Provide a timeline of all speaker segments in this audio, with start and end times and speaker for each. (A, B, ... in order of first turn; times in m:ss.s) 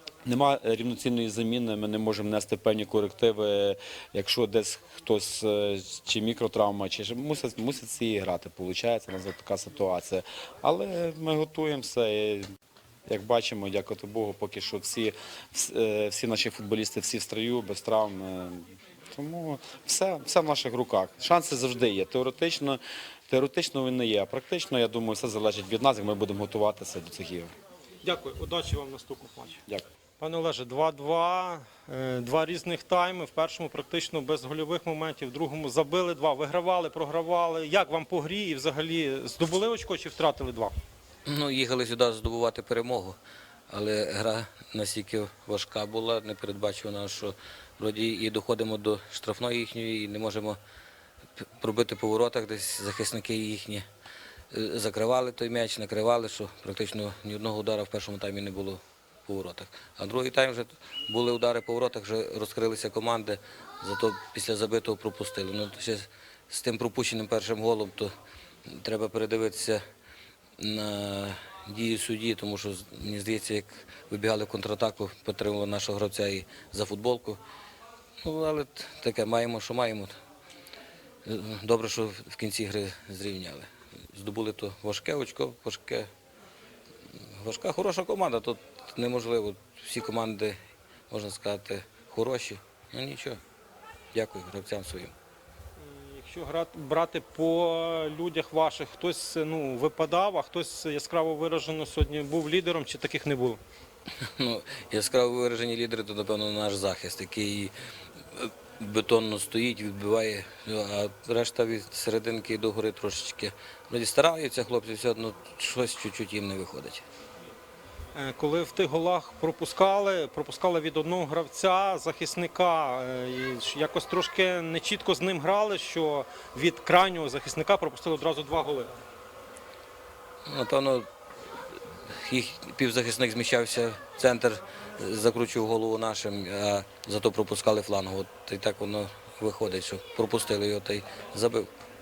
0:00.2-0:12.5 A
0:13.1-0:27.5 A
0:28.0-0:29.6 B
0:30.2-0:40.8 B
0:41.2-0:43.2 C
0:43.7-0:50.6 C
0:51.4-0:53.8 C
0:54.5-1:08.1 C
1:08.7-1:09.8 C
1:10.6-1:17.4 C
1:18.2-1:20.1 C
1:21.2-1:26.1 C
1:27.4-1:30.6 C
1:31.1-1:33.4 C
1:34.1-1:35.1 C
1:35.8-1:43.6 B
1:44.4-1:47.7 C
1:48.3-1:57.0 C
1:58.1-2:08.9 B
2:10.4-2:11.1 C
2:12.1-2:21.7 C